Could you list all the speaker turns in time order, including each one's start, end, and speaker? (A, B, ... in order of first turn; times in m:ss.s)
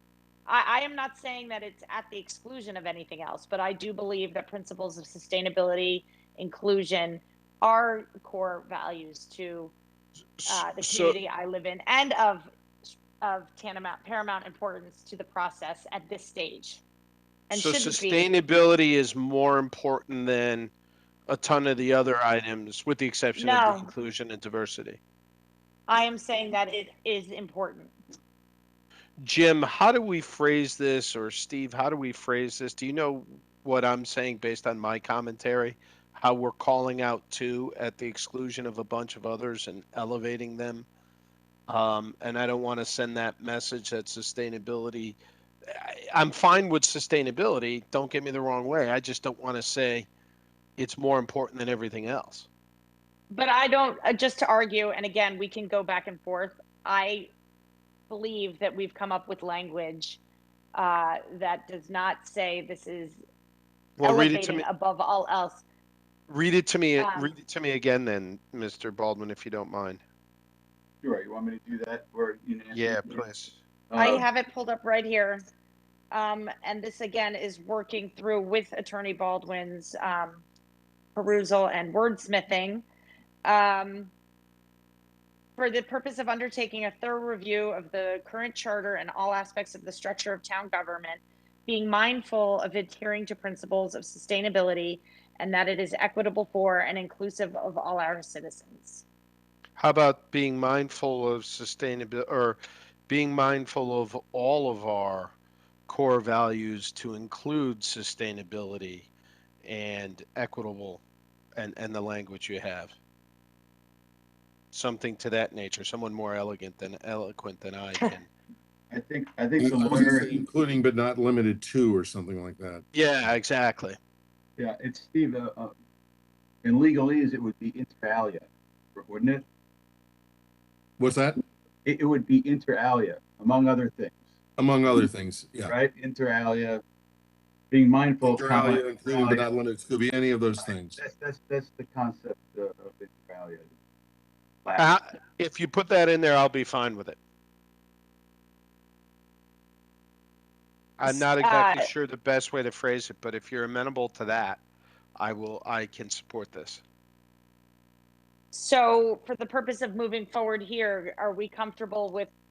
0:00.4-0:09.7 A
0:10.4-0:11.2 B
0:10.5-0:16.8 A
0:17.5-0:18.3 A
0:17.5-0:20.7 B
0:21.3-0:25.0 B
0:23.4-0:23.9 A
0:25.9-0:27.9 A
0:29.2-0:40.9 B
0:41.7-0:45.2 B
0:45.7-0:50.1 B
0:50.8-0:52.5 B
0:53.3-0:57.3 A
0:58.1-1:00.2 A
1:00.7-1:03.2 A
1:04.0-1:04.6 B
1:04.0-1:05.6 A
1:06.3-1:10.0 B
1:07.0-1:07.3 A
1:11.0-1:13.2 C
1:12.7-1:13.6 B
1:13.9-1:14.2 C
1:14.0-1:15.4 A
1:16.1-1:20.4 A
1:21.1-1:22.8 A
1:23.4-1:24.1 A
1:25.6-1:39.0 A
1:39.8-1:45.3 B
1:45.9-1:49.1 B
1:49.6-1:51.0 B
1:51.6-1:52.9 B
1:54.7-1:58.3 B
1:58.9-2:00.4 C
1:59.6-2:02.8 D
2:02.9-2:04.0 B
2:04.6-2:05.7 C
2:06.6-2:09.4 C
2:11.0-2:11.4 D
2:11.8-2:14.1 C
2:14.6-2:15.7 D
2:15.6-2:16.8 C
2:17.7-2:19.5 C
2:18.2-2:21.0 D
2:20.6-2:23.7 C
2:24.6-2:24.9 C
2:24.8-2:27.2 B
2:31.0-2:34.6 B
2:31.0-2:31.9 A
2:35.2-2:36.8 B
2:38.5-2:42.3 A